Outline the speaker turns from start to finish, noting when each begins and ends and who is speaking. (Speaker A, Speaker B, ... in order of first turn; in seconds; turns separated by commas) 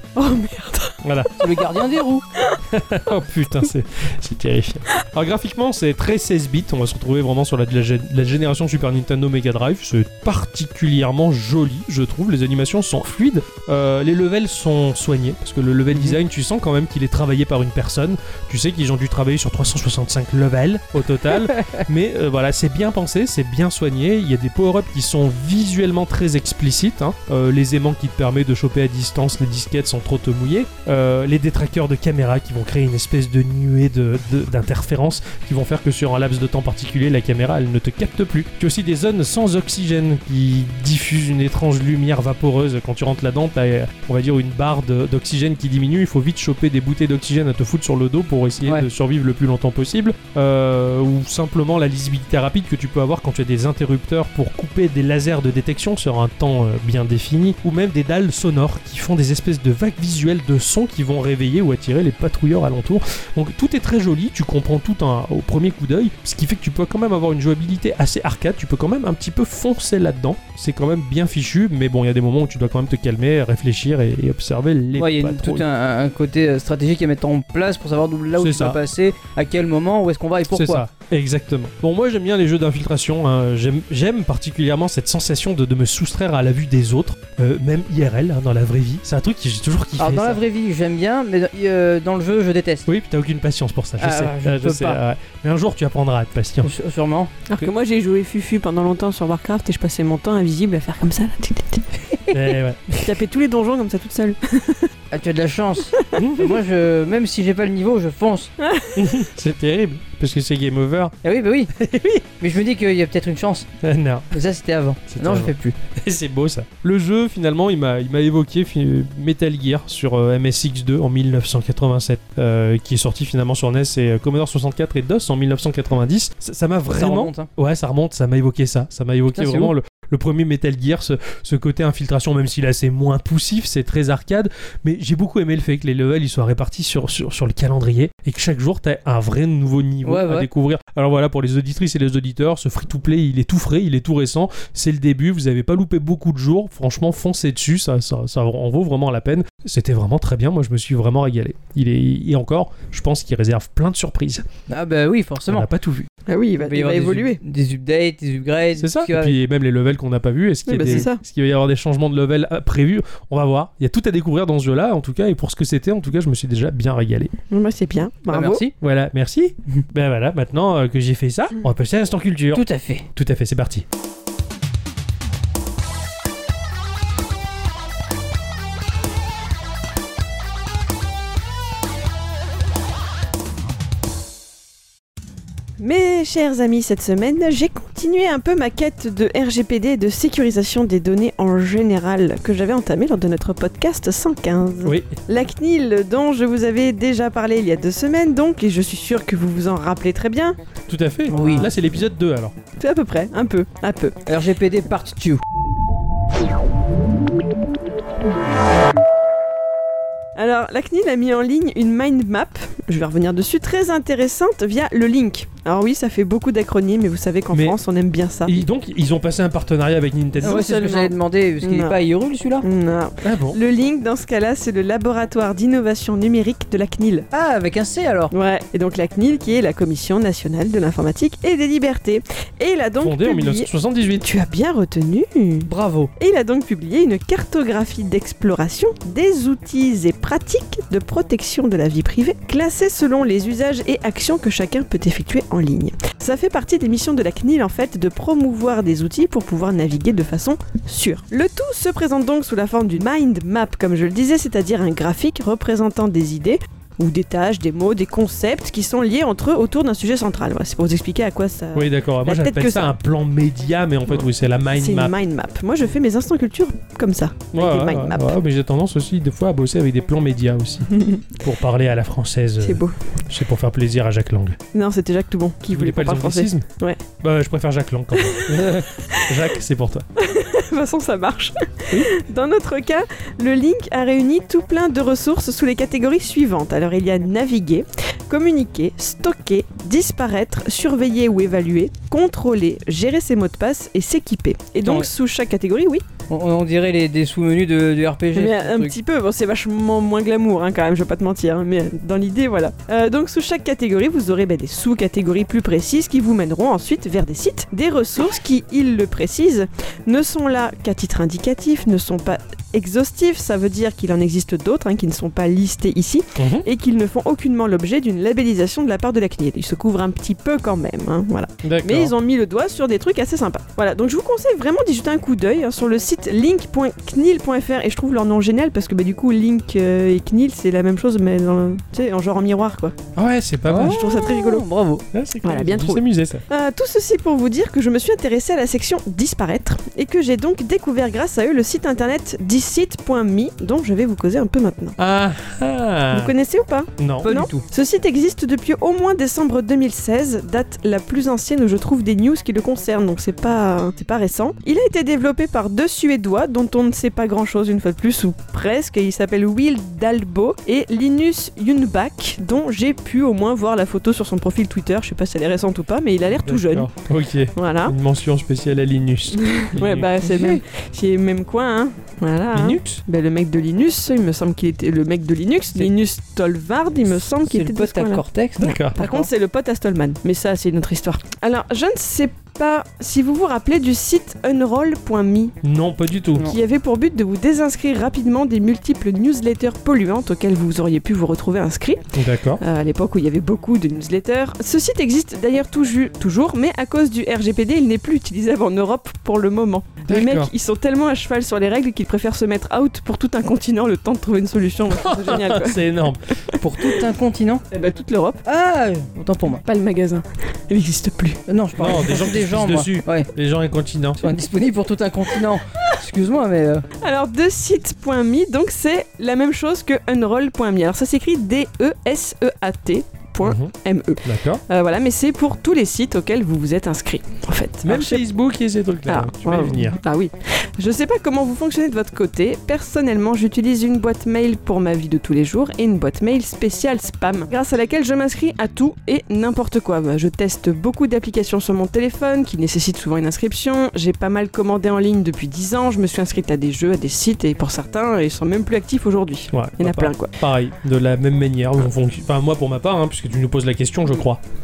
Speaker A: 0.1-1.0, Speaker B: 1.0-1.3, Speaker C: 1.4-2.2, Speaker B: 2.7-75.6, Speaker C: 15.9-16.2, Speaker C: 21.3-21.8, Speaker C: 74.9-80.8, Speaker B: 78.4-78.8, Speaker B: 80.5-90.4, Speaker C: 90.0-92.8, Speaker B: 92.8-96.7, Speaker C: 94.0-95.0, Speaker C: 96.6-97.3, Speaker A: 97.5-101.8, Speaker B: 102.3-103.1, Speaker A: 103.0-104.9, Speaker C: 105.1-108.5, Speaker B: 106.2-106.5, Speaker A: 108.6-109.1, Speaker B: 109.0-111.2, Speaker C: 111.2-111.7, Speaker B: 111.8-112.2, Speaker C: 112.4-113.7, Speaker B: 113.8-114.4, Speaker C: 114.3-115.8, Speaker B: 115.1-154.4, Speaker C: 126.9-127.5, Speaker C: 129.3-129.7, Speaker C: 140.0-140.5, Speaker C: 154.7-155.7, Speaker B: 155.5-156.1, Speaker A: 156.3-157.4, Speaker C: 156.6-159.4, Speaker B: 158.8-167.3, Speaker A: 160.7-161.2, Speaker A: 167.5-168.7, Speaker C: 168.3-168.7, Speaker B: 168.8-173.8, Speaker C: 172.5-173.1, Speaker A: 185.8-200.6, Speaker B: 194.8-195.1, Speaker B: 200.9-202.5, Speaker C: 201.3-201.7, Speaker A: 201.3-201.6, Speaker A: 202.8-204.2, Speaker C: 204.3-205.4, Speaker A: 210.3-218.6, Speaker B: 218.4-220.7, Speaker C: 220.4-222.7, Speaker A: 220.4-222.0, Speaker A: 222.6-227.3, Speaker B: 223.2-223.6, Speaker C: 227.3-228.3, Speaker A: 228.3-262.9, Speaker B: 233.0-234.2, Speaker C: 235.7-236.1, Speaker B: 261.7-265.1, Speaker A: 264.1-268.4, Speaker B: 267.5-270.9, Speaker A: 270.9-271.2, Speaker B: 271.4-274.6, Speaker A: 272.6-272.9, Speaker A: 274.7-277.0, Speaker B: 275.7-276.7, Speaker B: 277.2-280.1, Speaker A: 278.1-279.2, Speaker A: 280.2-296.0, Speaker C: 294.8-295.1, Speaker C: 296.3-299.0, Speaker A: 298.3-332.9, Speaker B: 316.4-316.6, Speaker B: 321.6-322.1, Speaker B: 333.1-334.0, Speaker C: 333.6-335.1, Speaker A: 333.7-334.6, Speaker B: 335.1-336.4, Speaker A: 335.4-344.9, Speaker B: 345.0-346.3, Speaker A: 346.1-366.9, Speaker B: 347.0-347.3, Speaker C: 347.2-347.6, Speaker B: 366.4-370.1, Speaker A: 367.5-367.9, Speaker A: 369.4-378.2, Speaker C: 370.2-370.6, Speaker B: 372.5-373.0, Speaker C: 377.4-379.3, Speaker B: 378.6-379.0, Speaker A: 378.8-385.5, Speaker B: 385.6-386.5, Speaker A: 386.4-392.0, Speaker B: 392.1-392.6, Speaker A: 392.6-405.8, Speaker B: 400.1-400.5, Speaker B: 404.9-406.3, Speaker A: 406.5-407.0, Speaker C: 406.6-407.6, Speaker A: 407.7-408.4, Speaker C: 408.4-409.6, Speaker A: 409.6-411.4, Speaker C: 411.5-413.3, Speaker B: 411.8-414.3, Speaker C: 414.2-416.8, Speaker A: 417.0-428.2, Speaker B: 423.4-423.7, Speaker B: 424.2-424.6, Speaker B: 427.8-430.0, Speaker A: 429.1-450.3, Speaker B: 449.5-454.4